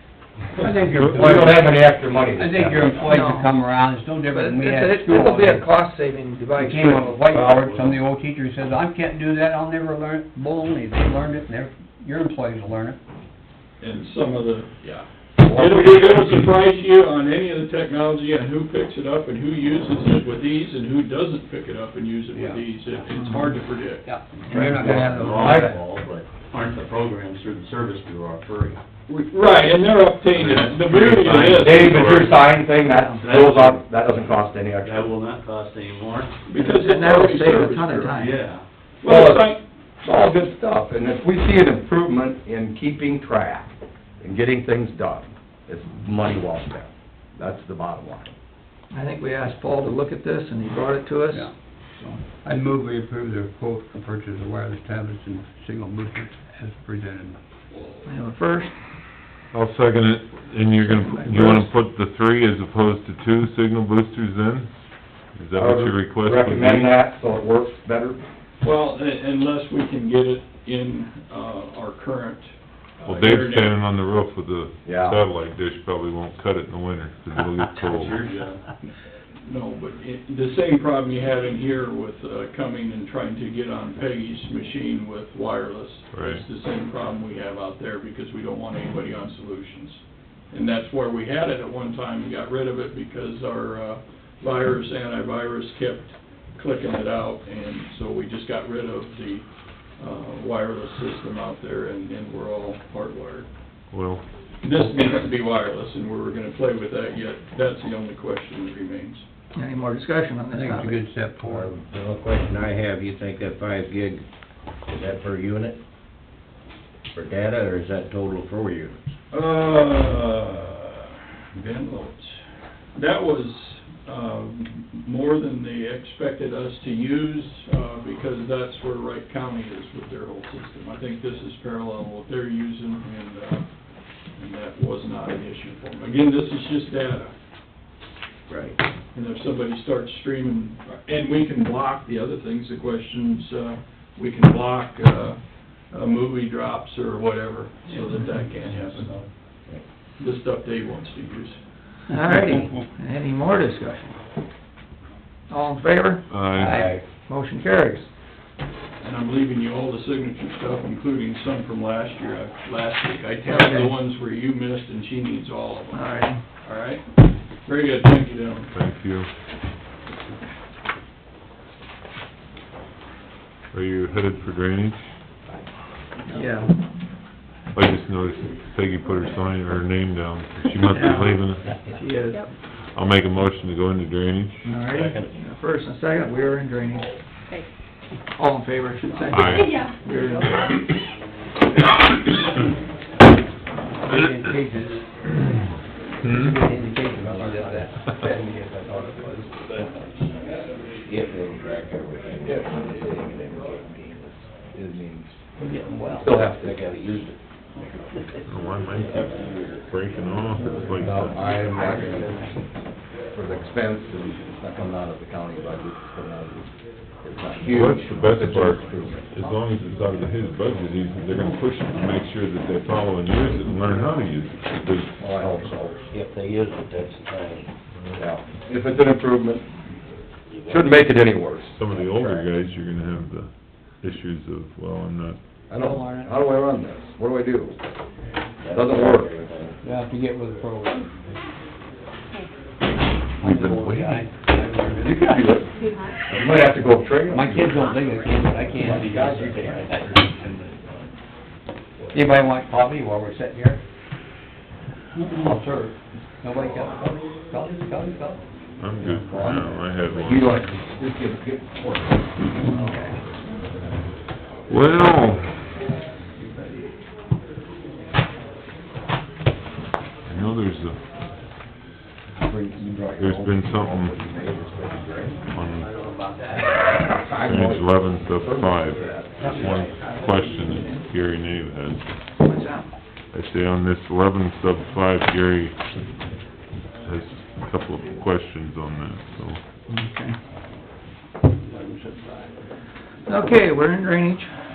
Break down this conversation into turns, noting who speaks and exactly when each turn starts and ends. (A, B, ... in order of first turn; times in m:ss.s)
0:00.6-0:05.7 A
0:01.0-0:03.2 B
0:03.1-0:03.5 C
0:04.3-0:07.1 C
0:06.5-0:13.0 A
0:07.3-0:08.0 D
0:13.8-0:14.8 E
0:14.8-0:16.3 B
0:15.4-0:24.1 E
0:22.3-0:22.6 A
0:23.2-0:23.5 C
0:24.0-0:25.8 A
0:24.5-0:25.7 C
0:24.8-0:28.8 D
0:29.1-0:32.4 E
0:30.3-0:32.2 D
0:31.1-0:31.6 F
0:31.4-0:35.1 B
0:32.9-0:33.2 C
0:33.2-0:33.8 D
0:34.8-0:36.3 D
0:36.4-0:38.3 E
0:36.5-0:38.4 C
0:38.2-0:38.6 D
0:39.0-0:39.6 E
0:39.0-0:48.3 B
0:48.9-0:52.2 C
0:52.4-0:57.4 A
0:58.0-0:58.7 C
0:59.5-1:04.7 G
1:00.9-1:01.6 C
1:05.3-1:06.9 G
1:05.6-1:08.2 B
1:08.6-1:13.8 E
1:13.0-1:18.3 G
1:14.8-1:15.2 B
1:17.7-1:18.6 D
1:19.4-1:39.4 E
1:26.1-1:26.4 G
1:40.0-1:43.5 E
1:43.9-1:44.2 G
1:44.6-1:49.2 E
1:49.5-1:51.0 C
1:50.6-1:51.7 A
1:51.6-1:54.2 F
1:54.9-1:55.8 F
1:57.1-1:59.0 F
1:59.3-2:02.4 E
2:03.0-2:13.6 E
2:14.4-2:17.3 E
2:19.1-2:29.6 E
2:30.2-2:31.6 E
2:32.1-2:34.2 C
2:32.3-2:32.6 A
2:35.5-2:36.2 C
2:36.3-2:36.8 G
2:36.5-2:36.9 A
2:37.2-2:38.1 C
2:39.0-2:46.0 E
2:43.4-2:43.9 C
2:45.9-2:46.4 C
2:46.6-2:47.1 E
2:47.6-2:48.7 E
2:48.7-2:49.3 G
2:53.7-2:55.0 G
2:56.3-2:56.8 C
2:57.7-3:01.8 G
3:00.9-3:02.4 C
3:02.9-3:04.6 G
3:04.6-3:07.2 C
3:08.3-3:10.7 C
3:09.3-3:09.8 G
3:14.0-3:15.1 A
3:16.2-3:16.5 G
3:16.2-3:17.9 A
3:17.2-3:17.8 F
3:18.0-3:19.4 B
3:18.9-3:19.9 F
3:21.1-3:24.0 F
3:22.4-3:22.8 B
3:24.5-3:25.4 B
3:25.6-3:26.3 A
3:26.1-3:26.9 B
3:26.2-3:27.4 F
3:28.5-3:31.4 G
3:31.0-3:32.4 B
3:32.0-3:32.3 F
3:33.3-3:39.3 B
3:37.7-3:45.2 G
3:45.2-3:46.0 B
3:46.0-3:47.7 F
3:48.2-3:49.7 B
3:50.5-3:50.9 F
3:50.6-3:52.3 B
3:51.8-3:55.4 G
3:55.7-3:57.8 B
3:55.8-3:56.3 A
3:58.6-3:59.8 F
3:58.6-3:59.4 B
3:59.8-4:01.1 A
4:03.4-4:05.4 A
4:03.4-4:04.2 B
4:05.0-4:05.7 B
4:06.3-4:07.9 B
4:07.3-4:09.2 A
4:08.8-4:10.1 B
4:08.8-4:10.8 D
4:08.9-4:09.8 F
4:12.1-4:13.8 A
4:15.2-4:18.4 A
4:18.8-4:20.6 G
4:19.1-4:19.6 B
4:19.2-4:19.7 A
4:20.1-4:23.0 B
4:24.7-4:25.5 G
4:30.3-4:31.0 G
4:32.4-4:35.4 B
4:33.2-4:34.1 G
4:35.5-4:35.9 G
4:36.9-4:39.6 B
4:37.3-4:42.0 G
4:39.4-4:41.0 C
4:42.4-4:42.9 C
4:43.3-4:45.8 G
4:47.0-4:49.6 G
4:49.9-4:50.4 C
4:51.6-4:52.4 A
4:53.3-4:54.5 C